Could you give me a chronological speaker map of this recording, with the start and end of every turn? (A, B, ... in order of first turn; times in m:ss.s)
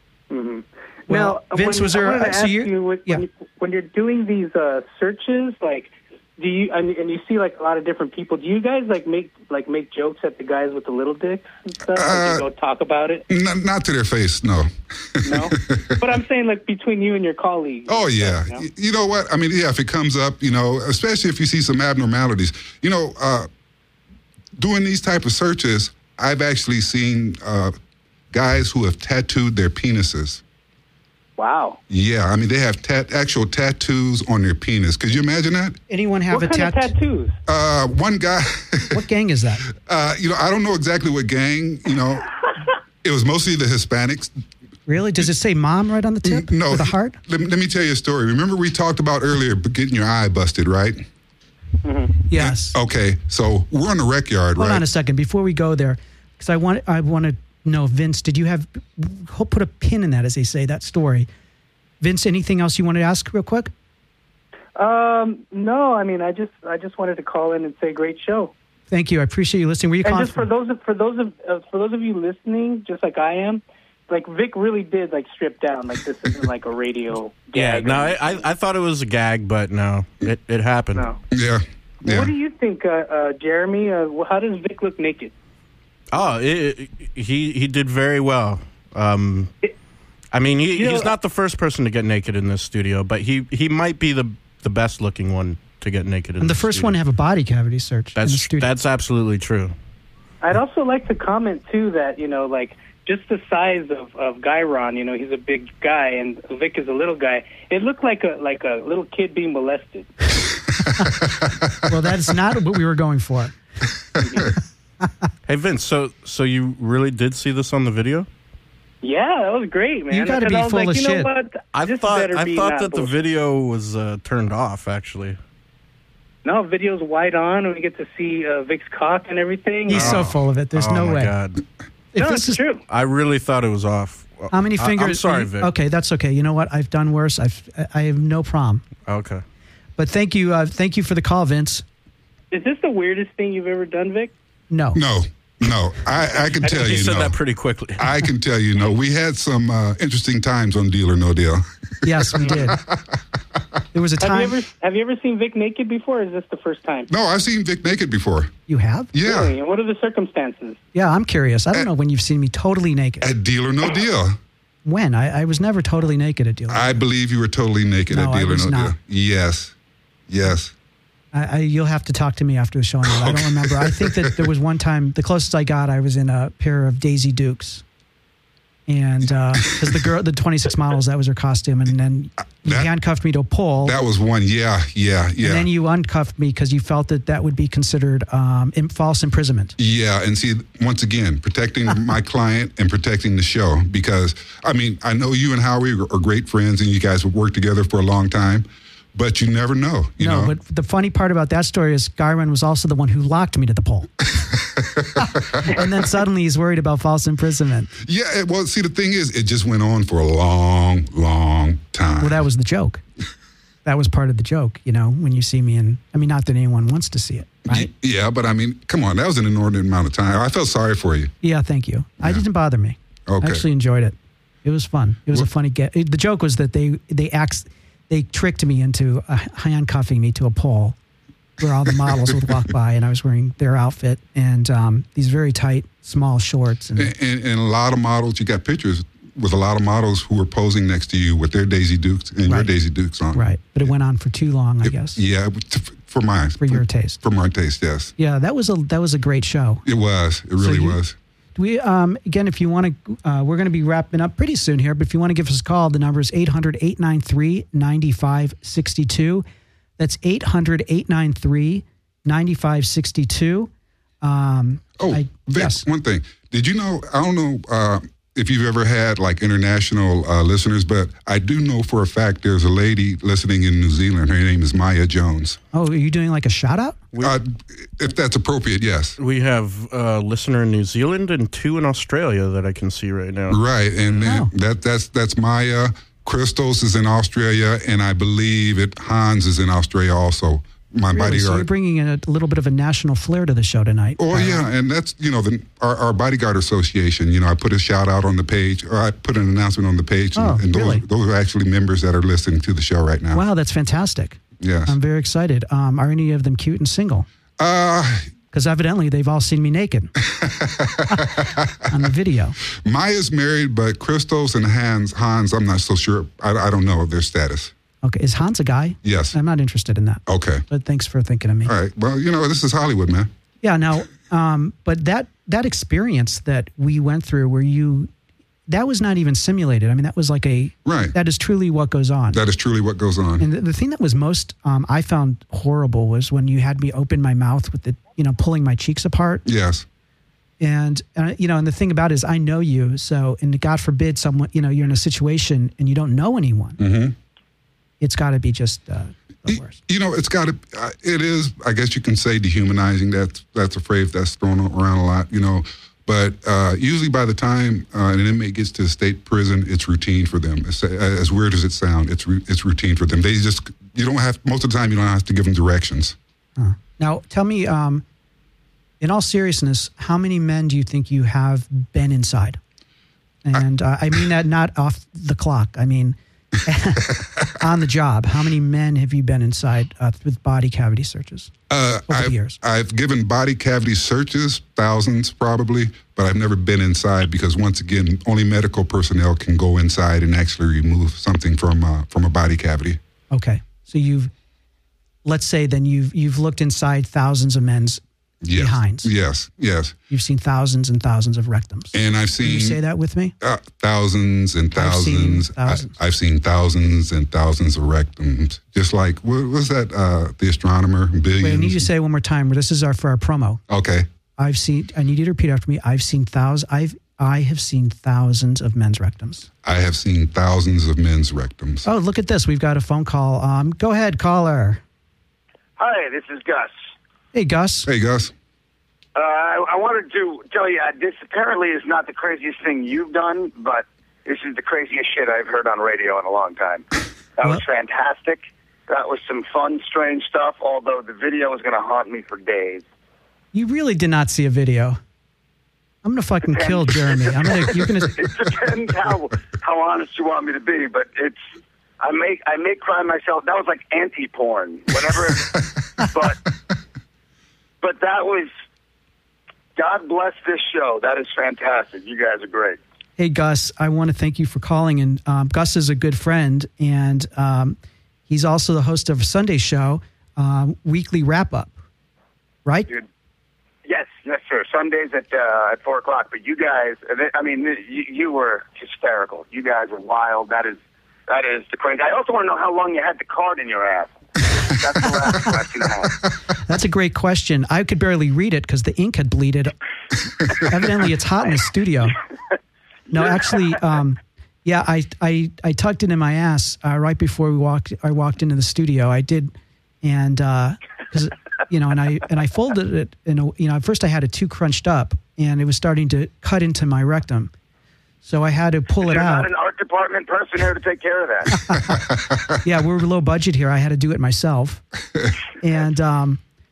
0:00.3-0:13.2 A
0:01.1-0:03.2 B
0:11.9-0:12.5 C
0:13.3-0:16.0 C
0:15.2-0:18.6 A
0:17.9-0:23.5 C
0:24.6-0:27.7 C
0:28.3-0:30.4 C
0:31.4-0:31.8 A
0:31.9-0:35.8 C
0:35.9-0:36.9 B
0:36.3-0:37.3 A
0:37.5-0:39.0 C
0:38.9-0:39.6 B
0:39.7-0:42.3 C
0:43.0-0:44.3 C
0:44.9-0:47.2 B
0:46.2-0:51.0 C
0:51.8-0:52.1 A
0:52.3-0:52.8 B
0:52.3-0:54.8 C
0:54.6-1:01.3 B
1:02.0-1:03.7 B
1:04.8-1:08.5 A
1:08.9-1:10.5 B
1:10.0-1:18.4 A
1:17.5-1:21.1 D
1:21.3-1:22.3 C
1:22.0-1:25.3 A
1:26.1-1:29.5 D
1:30.3-1:37.0 D
1:30.7-1:31.1 A
1:36.4-1:38.7 B
1:38.2-1:39.7 D
1:40.4-1:50.3 A
1:51.8-1:53.5 B
1:54.2-1:54.5 A
1:55.4-1:58.3 D
1:59.0-2:03.1 A
2:00.1-2:01.3 B
2:01.7-2:05.4 D
2:06.4-2:10.2 A
2:09.9-2:11.3 B
2:09.9-2:11.6 D
2:12.1-2:12.6 B
2:12.2-2:12.8 A
2:12.9-2:15.7 D
2:14.5-2:18.8 B
2:19.0-2:19.4 D
2:20.0-2:21.8 B
2:22.5-2:24.3 A
2:24.7-2:25.0 B
2:24.9-2:27.4 C
2:26.6-2:28.2 D
2:26.7-2:27.0 A
2:28.0-2:33.2 C
2:32.0-2:32.8 B
2:33.9-2:34.6 B
2:34.2-2:37.1 A
2:37.1-2:38.5 C
2:38.7-2:39.1 B
2:39.1-2:39.5 C
2:39.2-2:40.8 A
2:40.9-2:43.3 B
2:43.2-2:44.4 C
2:44.8-2:47.0 B
2:46.7-2:49.7 C
2:48.1-2:48.9 B
2:50.3-2:50.7 C
2:51.3-2:57.8 B
2:53.0-2:54.5 C
2:58.9-3:04.0 B
2:59.7-3:00.0 C
3:02.6-3:02.9 C
3:03.8-3:05.7 C
3:05.4-3:09.7 B
3:09.8-3:20.5 C
3:20.2-3:24.2 B
3:24.4-3:25.7 C
3:25.2-3:27.9 B
3:28.0-3:32.4 C
3:32.2-3:33.0 B
3:33.8-3:37.9 B
3:37.6-3:41.3 C
3:41.4-3:51.0 B
3:43.3-3:43.6 C
3:51.6-3:57.1 B
3:57.0-4:03.4 C
4:02.4-4:02.7 B
4:03.3-4:05.2 B
4:04.8-4:08.1 C
4:06.6-4:07.2 B
4:08.2-4:09.8 B
4:09.8-4:11.2 C
4:10.6-4:11.0 B
4:11.6-4:19.4 B
4:20.0-4:23.7 B
4:24.2-4:25.8 B
4:25.0-4:35.6 C
4:35.7-4:37.0 B
4:37.2-4:39.2 C
4:39.2-4:43.6 D
4:43.5-4:51.7 C
4:44.2-4:44.5 B
4:51.1-4:54.6 B
4:54.2-5:03.4 C
5:00.4-5:01.0 B
5:03.3-5:07.3 B
5:04.6-5:05.0 C
5:07.6-5:08.3 C
5:08.5-5:10.1 B
5:10.2-5:11.9 C
5:11.1-5:12.6 B
5:12.7-5:17.7 C
5:18.0-5:21.7 B
5:19.0-5:19.3 C
5:20.3-5:20.6 C
5:21.6-5:23.3 C
5:23.6-5:28.1 B
5:28.7-5:32.4 B
5:30.8-5:31.1 C
5:32.3-5:33.4 C
5:33.4-5:39.4 B
5:39.4-5:39.8 C
5:40.6-5:46.8 B
5:46.8-5:47.2 C
5:48.0-5:49.8 B
5:49.5-6:06.2 C
6:06.6-6:08.0 B
6:09.0-6:12.6 B
6:13.4-6:21.5 B
6:21.7-6:33.0 C
6:22.1-6:22.6 B
6:33.3-6:34.3 B
6:35.2-6:39.1 B
6:38.4-6:40.0 C
6:40.1-6:43.3 B
6:41.9-6:42.8 C
6:43.4-6:51.9 C
6:44.7-6:45.9 B
6:51.4-6:53.6 B
6:53.7-6:54.1 C
6:54.4-6:59.5 B
6:59.6-7:01.8 C
7:01.8-7:04.8 B
7:05.8-7:06.7 E
7:07.3-7:07.9 B
7:07.8-7:08.3 C
7:09.2-7:16.8 E
7:17.4-7:22.8 E
7:23.5-7:25.0 B
7:26.0-7:28.2 B
7:26.4-7:31.4 E
7:32.0-7:36.4 E
7:37.8-7:38.5 E
7:39.8-7:42.8 E
7:43.2-7:47.8 B
7:48.3-7:51.7 B
7:53.8-8:06.2 E
8:06.6-8:09.7 B
8:10.5-8:12.2 B
8:13.1-8:27.5 B
8:28.2-8:29.5 B
8:29.0-8:31.6 E
8:31.6-8:32.0 B
8:31.9-8:32.5 C
8:32.6-8:34.8 B
8:35.6-8:36.4 B